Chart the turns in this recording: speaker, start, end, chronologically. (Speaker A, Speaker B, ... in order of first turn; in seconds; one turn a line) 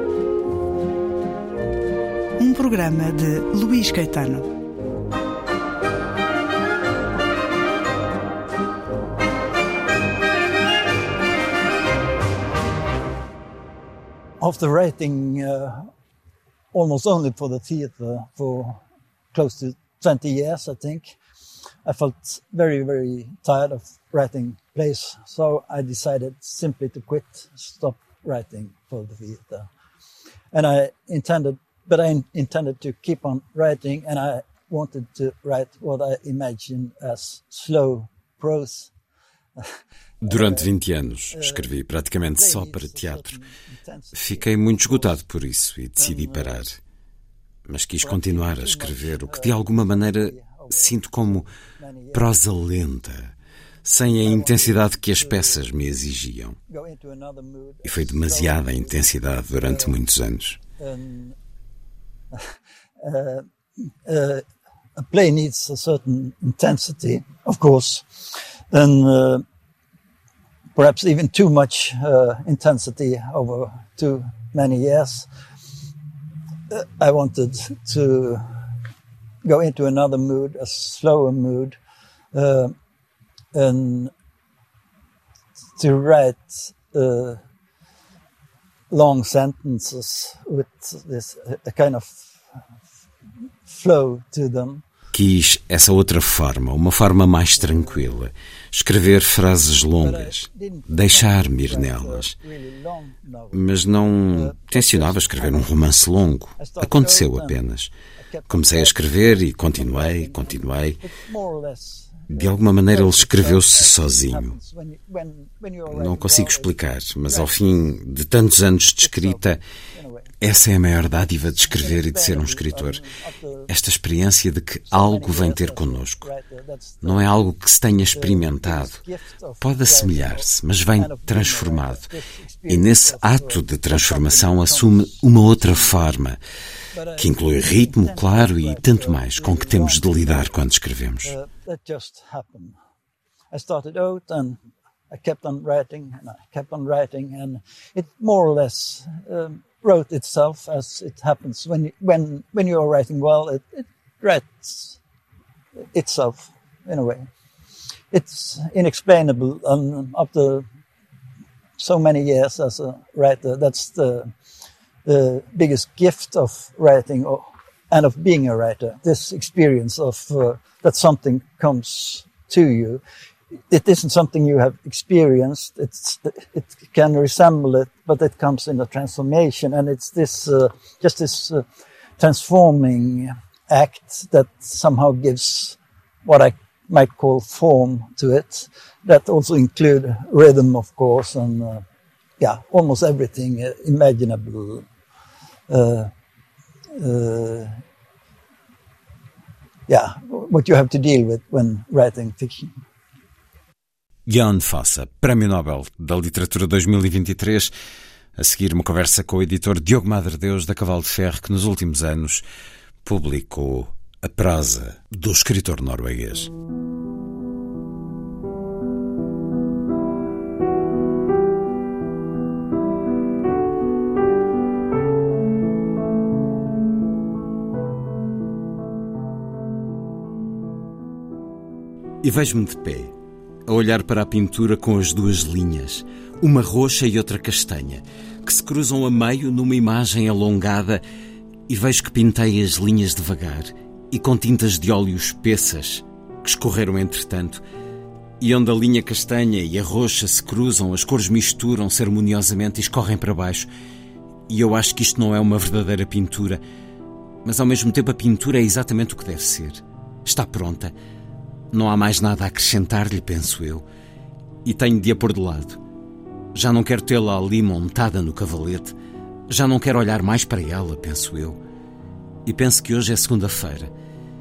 Speaker A: 2.4-4.5
Speaker B: 14.4-15.9
Speaker B: 16.7-18.8
Speaker B: 19.3-21.2
Speaker B: 21.9-29.7
Speaker B: 30.5-38.9
Speaker C: 40.2-43.4
Speaker B: 40.2-40.7
Speaker B: 41.3-41.7
Speaker B: 42.4-45.2
Speaker C: 44.1-46.8
Speaker B: 46.0-46.6
Speaker C: 47.7-51.5
Speaker B: 48.0-52.3
Speaker C: 52.1-53.3
Speaker C: 53.9-56.6
Speaker B: 53.9-55.6
Speaker B: 56.7-60.0
Speaker C: 57.9-60.6
Speaker B: 60.8-61.4
Speaker B: 62.3-64.5
Speaker B: 65.0-69.5
Speaker B: 70.8-75.3
Speaker B: 76.7-78.5
Speaker B: 79.4-81.8
Speaker B: 82.3-82.8
Speaker B: 83.5-84.1
Speaker B: 85.8-87.4
Speaker B: 88.9-92.3
Speaker B: 93.7-94.8
Speaker C: 95.1-102.3
Speaker B: 97.6-98.1
Speaker B: 100.0-103.7
Speaker C: 103.5-107.9
Speaker B: 104.3-105.7
Speaker B: 106.6-107.6
Speaker B: 108.2-116.8
Speaker C: 108.5-111.0
Speaker C: 112.3-114.5
Speaker C: 115.9-119.6
Speaker B: 117.3-117.7
Speaker B: 119.0-120.4
Speaker C: 120.4-123.0
Speaker B: 121.2-123.7
Speaker C: 123.7-126.3
Speaker B: 124.9-127.3
Speaker C: 127.0-129.0
Speaker B: 128.1-136.1
Speaker C: 129.6-132.1
Speaker C: 132.7-136.4
Speaker B: 136.9-140.6
Speaker C: 137.2-141.3
Speaker B: 141.2-142.8
Speaker B: 143.5-144.6
Speaker B: 145.1-155.0
Speaker B: 155.9-157.3
Speaker B: 158.1-160.7
Speaker B: 161.8-164.3
Speaker B: 165.1-173.0
Speaker B: 173.7-181.6
Speaker B: 182.2-191.8
Speaker B: 192.4-194.8
Speaker B: 195.7-196.1
Speaker B: 197.0-197.8
Speaker B: 199.9-202.8
Speaker C: 204.3-207.7
Speaker C: 208.4-212.4
Speaker C: 213.0-216.5
Speaker C: 232.2-233.1
Speaker C: 233.7-241.0
Speaker C: 241.7-247.6
Speaker C: 248.4-253.7
Speaker C: 254.5-256.6
Speaker C: 257.4-260.9
Speaker C: 261.7-263.9
Speaker C: 264.6-265.8
Speaker C: 266.5-269.0
Speaker C: 269.5-271.6
Speaker C: 272.5-273.9